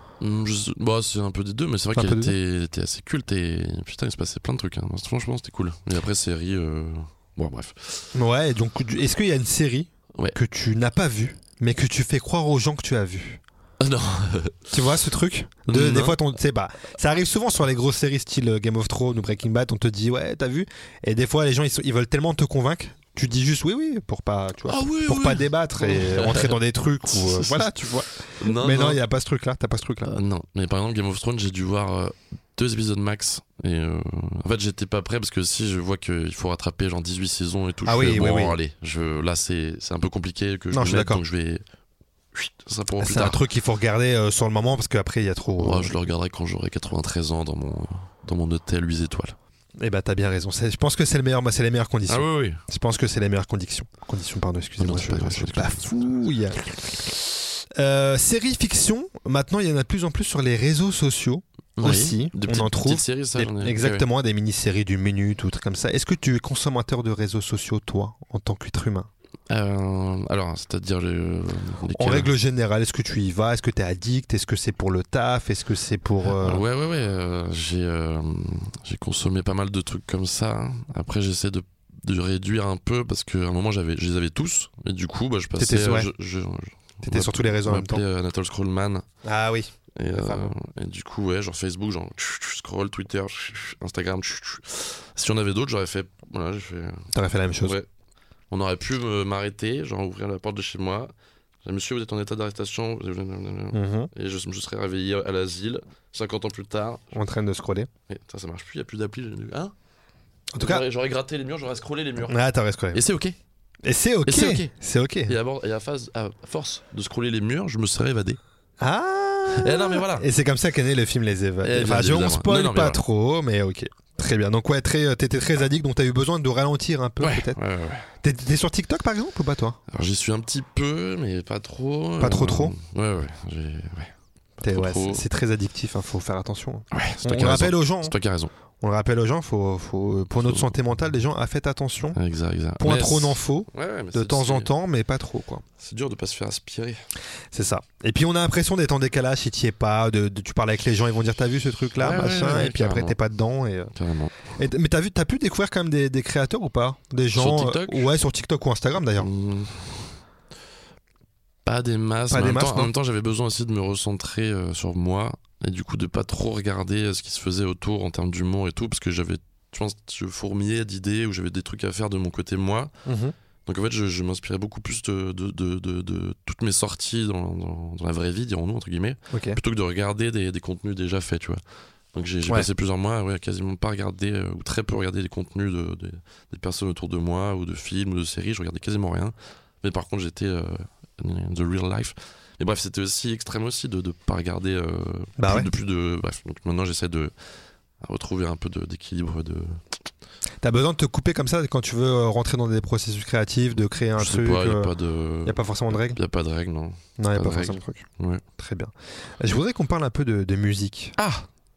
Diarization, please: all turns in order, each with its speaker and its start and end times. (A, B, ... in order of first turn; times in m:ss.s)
0:00.2-0:08.1 A
0:01.9-0:02.3 B
0:08.1-0:13.4 B
0:13.8-0:14.7 A
0:14.7-0:30.1 B
0:15.6-0:16.2 A
0:24.6-0:27.6 A
0:28.4-0:29.0 A
0:30.0-0:41.6 A
0:37.8-0:38.6 B
0:40.7-0:41.2 B
0:42.3-0:43.4 A
0:43.0-0:45.9 B
0:45.6-0:49.4 A
0:49.8-1:09.1 B
0:52.1-0:52.6 A
0:54.8-0:56.1 A
1:01.8-1:04.1 A
1:09.5-1:12.3 A
1:11.9-1:16.6 B
1:16.2-1:29.0 A
1:25.6-1:26.1 B
1:27.0-1:28.0 B
1:29.2-1:30.5 B
1:29.9-1:37.1 A
1:37.1-1:37.8 B
1:37.6-1:37.9 A
1:38.5-1:41.1 A
1:41.6-1:47.0 A
1:43.7-1:44.1 B
1:47.1-1:47.9 B
1:48.1-1:49.7 A
1:50.5-1:50.8 B
1:50.6-1:52.4 A
1:52.3-1:53.0 B
1:52.9-1:53.4 A
1:53.8-1:55.3 B
1:54.2-1:54.7 A
1:55.3-1:58.4 A
1:58.8-2:07.6 B
1:59.5-2:00.3 A
2:01.6-2:03.0 A
2:07.2-2:08.1 A
2:08.2-2:09.8 B
2:09.9-2:15.2 A
2:12.2-2:12.7 B
2:14.6-2:18.1 B
2:16.9-2:18.5 A
2:18.8-2:22.2 B
2:20.4-2:20.7 A
2:22.1-2:24.7 A
2:22.8-2:25.6 B
2:25.8-2:27.0 A
2:27.5-2:33.9 B
2:32.0-2:33.2 A
2:33.9-2:34.3 A
2:34.5-2:39.3 B
2:37.3-2:38.1 A
2:39.2-2:40.2 A
2:41.6-2:52.9 A
2:42.3-2:42.9 B
2:53.0-2:53.3 B
2:53.6-3:01.6 A
2:59.3-2:59.6 B
3:02.1-3:17.3 A
3:15.4-3:15.7 B
3:18.0-3:19.8 A
3:20.6-3:24.9 B
3:24.2-3:28.4 A
3:25.4-3:26.2 B
3:27.2-3:28.0 B
3:28.6-3:31.1 B
3:31.2-3:31.5 A